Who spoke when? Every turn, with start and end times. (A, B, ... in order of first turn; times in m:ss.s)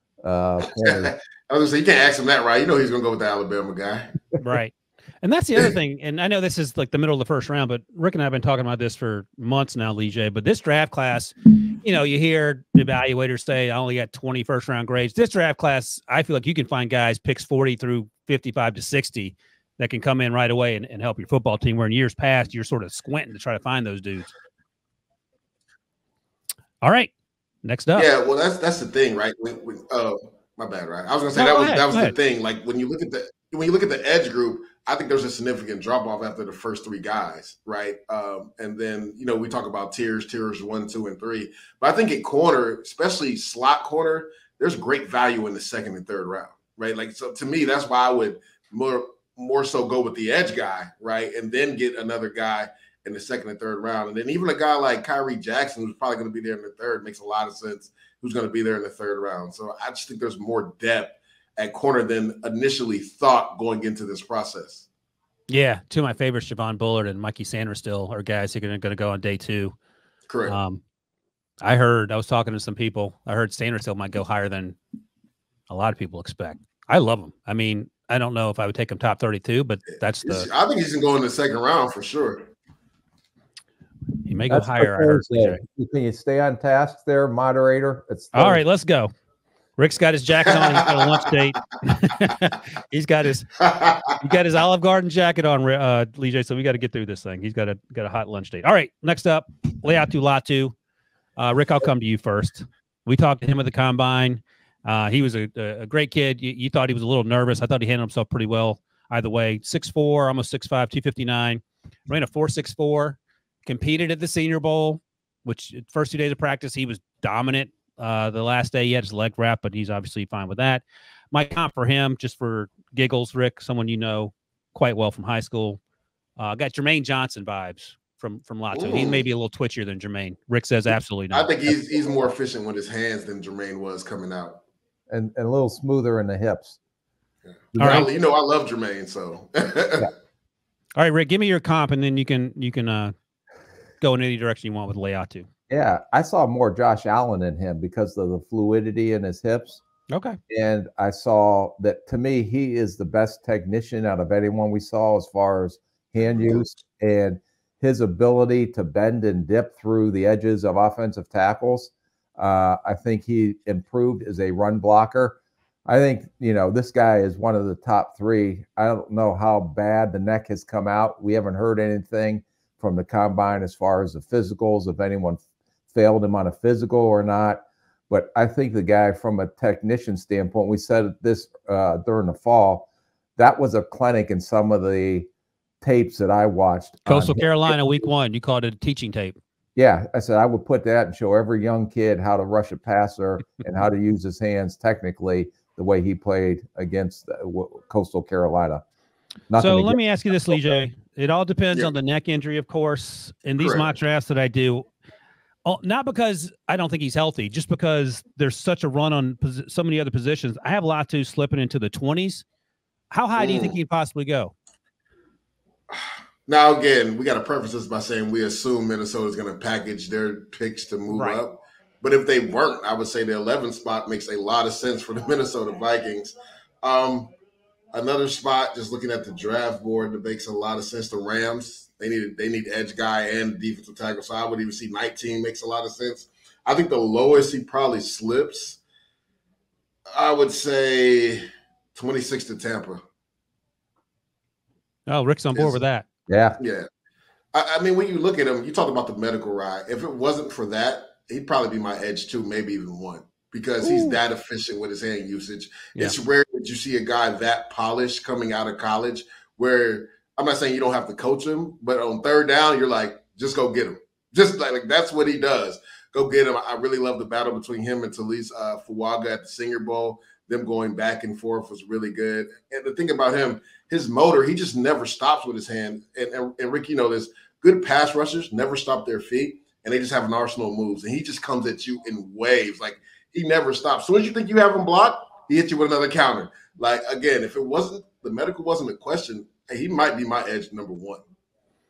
0:00.2-0:01.1 A
0:00.8-0:04.1 B
0:04.4-0:24.3 C
0:26.8-0:27.1 C
0:27.6-0:28.1 C
0:28.0-1:04.9 B
0:31.4-0:32.1 C
1:05.5-1:09.7 C
1:10.3-1:10.6 B
1:10.5-1:10.8 C
1:11.6-1:14.8 C
1:15.7-1:20.5 C
1:20.2-1:22.5 B
1:24.2-1:25.6 C
1:24.5-1:28.6 A
1:28.3-1:29.1 C
1:29.8-1:40.7 C
1:30.5-1:31.0 B
1:33.6-1:34.1 B
1:41.4-2:05.8 C
2:06.4-2:11.5 C
2:08.7-2:09.2 B
2:11.3-2:14.6 B
2:15.1-2:16.8 A
2:17.5-2:20.1 B
2:17.7-2:18.1 A
2:17.8-2:18.1 C
2:21.0-2:23.1 C
2:24.0-2:25.5 C
2:25.7-2:29.8 A
2:30.1-2:30.4 C
2:30.5-3:05.3 A
2:36.2-2:36.8 B
3:05.8-3:07.8 A
3:07.0-3:09.4 C
3:09.8-3:18.8 A
3:19.5-3:20.0 A
3:19.6-3:24.8 C
3:23.6-3:24.0 B
3:25.6-3:32.4 C
3:33.1-3:34.5 C
3:33.4-3:33.8 B
3:35.9-3:47.3 B
3:41.1-3:41.4 C
3:47.9-3:58.8 B
4:00.1-4:01.4 B
4:01.9-4:03.0 B
4:05.1-4:06.0 C
4:05.5-4:05.8 B
4:06.3-4:06.6 A
4:06.6-4:06.9 B
4:07.5-4:51.2 B
4:13.8-4:14.2 C